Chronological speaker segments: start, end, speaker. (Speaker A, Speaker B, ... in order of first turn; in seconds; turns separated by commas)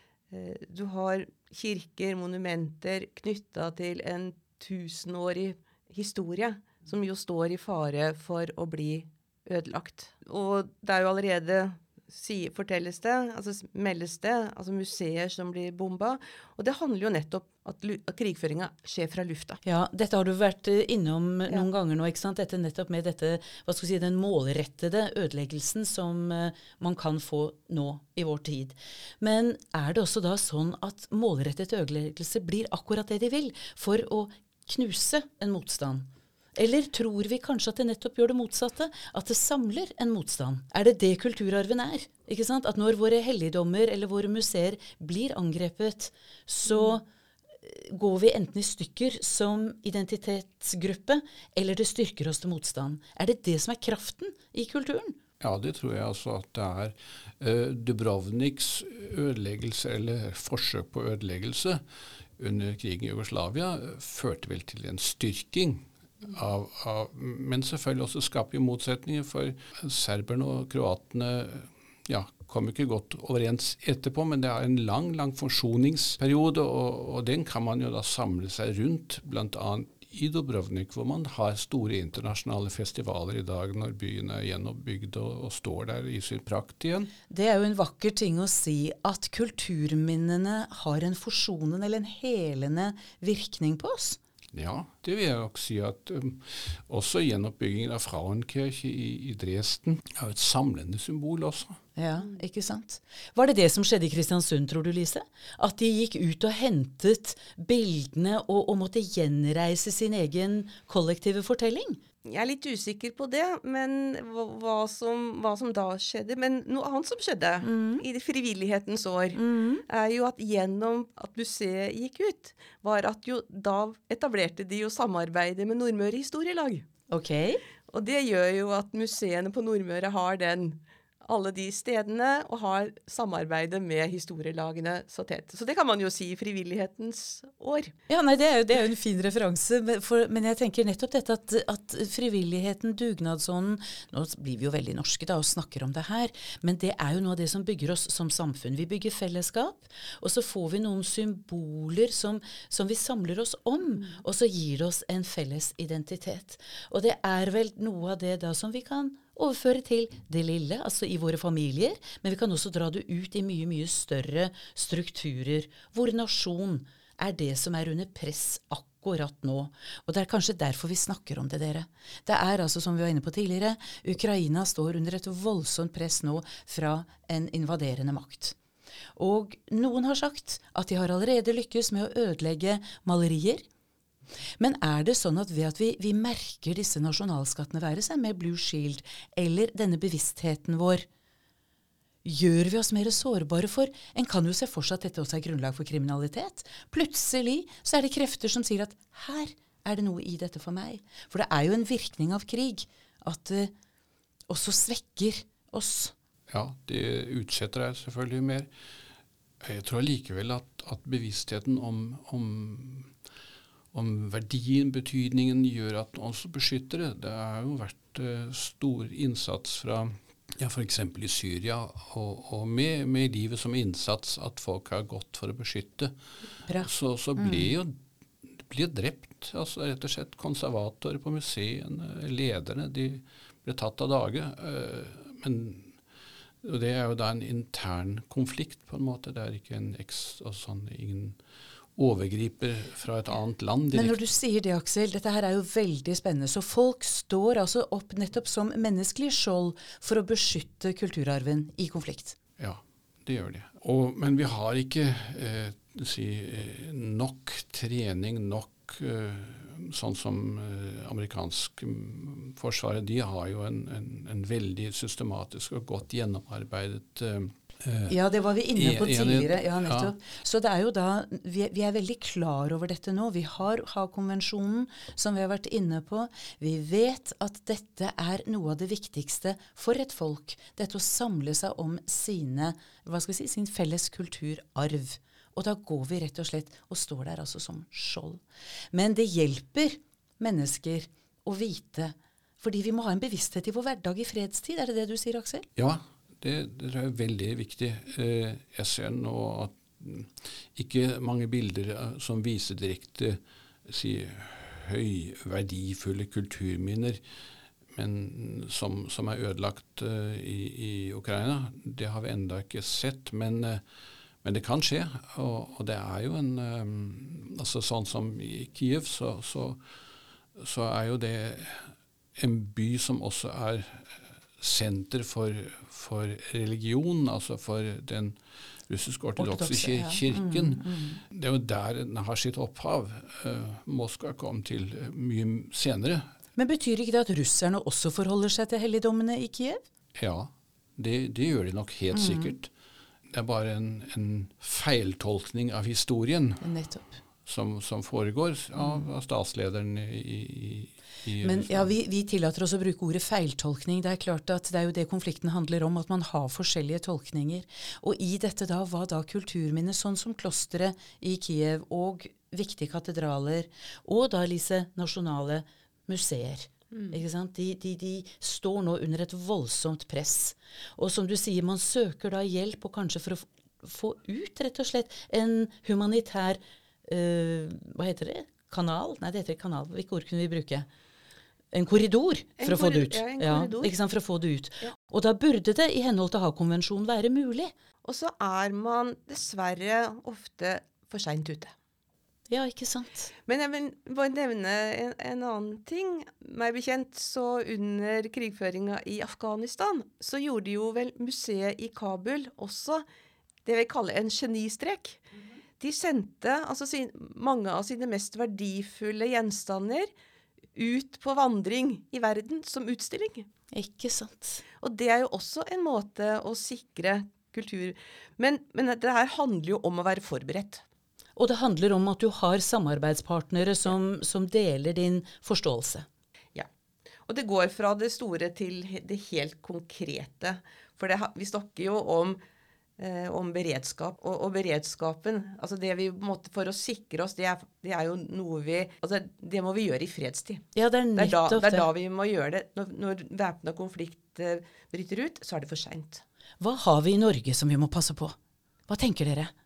Speaker A: 0.3-19.6, Speaker B: 19.6-47.0, Speaker B: 47.6-55.2, Speaker C: 55.4-61.8, Speaker C: 62.4-87.1, Speaker B: 87.3-94.2, Speaker C: 94.5-101.8, Speaker B: 102.0-112.0, Speaker A: 112.2-126.9, Speaker B: 117.6-118.0, Speaker B: 119.3-119.8, Speaker B: 127.1-127.6, Speaker A: 127.9-137.9, Speaker B: 138.1-178.6, Speaker B: 179.2-183.7, Speaker B: 184.6-191.1, Speaker B: 192.2-203.7, Speaker B: 204.5-206.1, Speaker C: 206.5-208.7, Speaker C: 209.6-213.1, Speaker C: 213.9-226.1, Speaker B: 226.7-227.7, Speaker C: 226.8-227.9, Speaker C: 228.5-236.0, Speaker C: 236.6-241.4, Speaker C: 242.0-244.2, Speaker B: 243.9-252.4, Speaker C: 252.6-268.2, Speaker B: 268.1-295.7, Speaker C: 268.8-270.1, Speaker C: 295.8-307.2, Speaker C: 307.9-313.8, Speaker C: 314.4-319.8, Speaker C: 320.6-336.3, Speaker B: 329.4-331.2, Speaker B: 336.6-339.8, Speaker C: 340.2-342.7, Speaker B: 342.1-342.5, Speaker C: 343.3-346.7, Speaker B: 346.6-347.2, Speaker C: 347.4-351.9, Speaker B: 351.4-380.9, Speaker B: 381.7-387.7, Speaker A: 382.6-383.9, Speaker A: 388.0-391.7, Speaker B: 392.5-393.3, Speaker A: 393.5-403.1, Speaker A: 403.6-405.2, Speaker A: 405.8-410.1, Speaker A: 410.8-413.5, Speaker B: 413.7-414.6, Speaker A: 414.8-420.8, Speaker B: 421.4-426.1, Speaker A: 427.3-432.4, Speaker A: 433.0-446.2, Speaker B: 440.8-441.9, Speaker B: 446.6-448.4, Speaker B: 448.9-449.5